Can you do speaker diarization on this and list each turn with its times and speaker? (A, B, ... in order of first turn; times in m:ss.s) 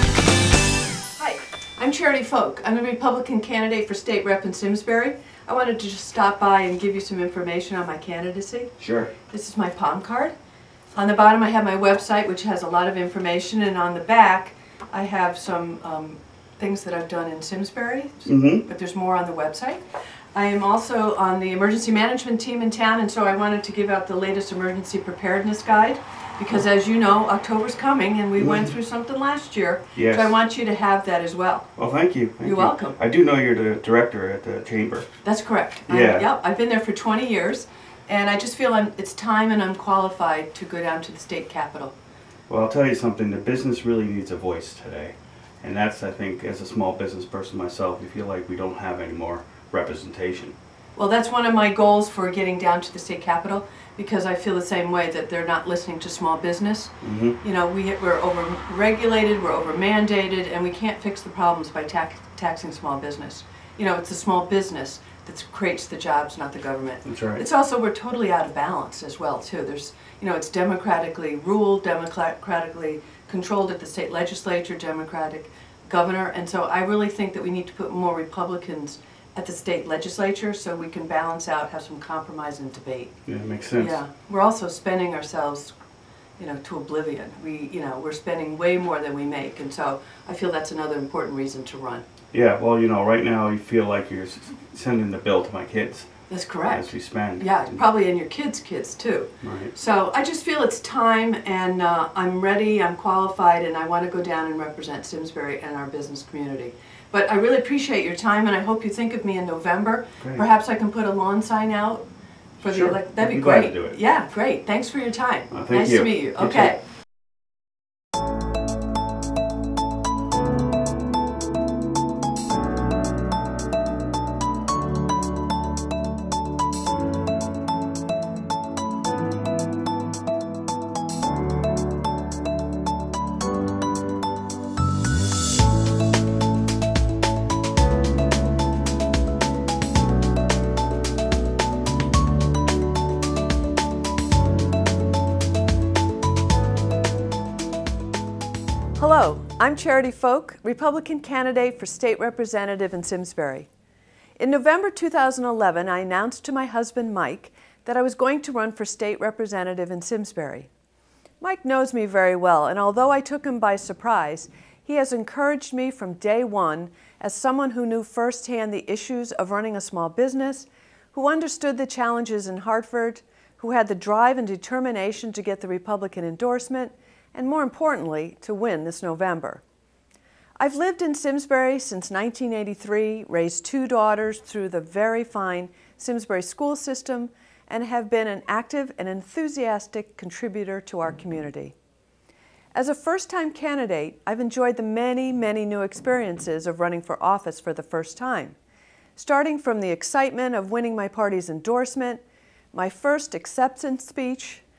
0:01.2-0:08.7 A
0:08.8-0:09.1 B
0:09.3-0:10.4 A
0:10.9-0:19.8 A
0:18.2-0:18.6 B
0:20.3-0:31.7 A
0:28.4-0:28.7 B
0:30.0-0:30.4 B
0:31.8-0:35.1 B
0:32.4-0:33.0 A
0:35.2-0:42.0 A
0:35.9-0:36.3 B
0:42.5-0:50.6 B
0:51.0-1:23.1 A
0:57.0-0:57.4 B
1:07.0-1:07.4 B
1:23.3-1:24.0 B
1:23.8-1:25.8 A
1:26.4-1:32.1 A
1:32.3-1:36.1 B
1:36.3-1:52.1 A
1:36.7-1:37.8 B
1:39.4-1:39.7 B
1:52.6-1:54.0 B
1:52.6-1:56.8 A
1:55.5-1:56.7 B
2:29.0-2:33.7 A
2:34.4-2:40.7 A
2:41.4-2:59.6 A
3:00.6-3:11.8 A
3:12.7-3:18.6 A
3:19.2-3:22.2 A
3:22.7-3:24.6 A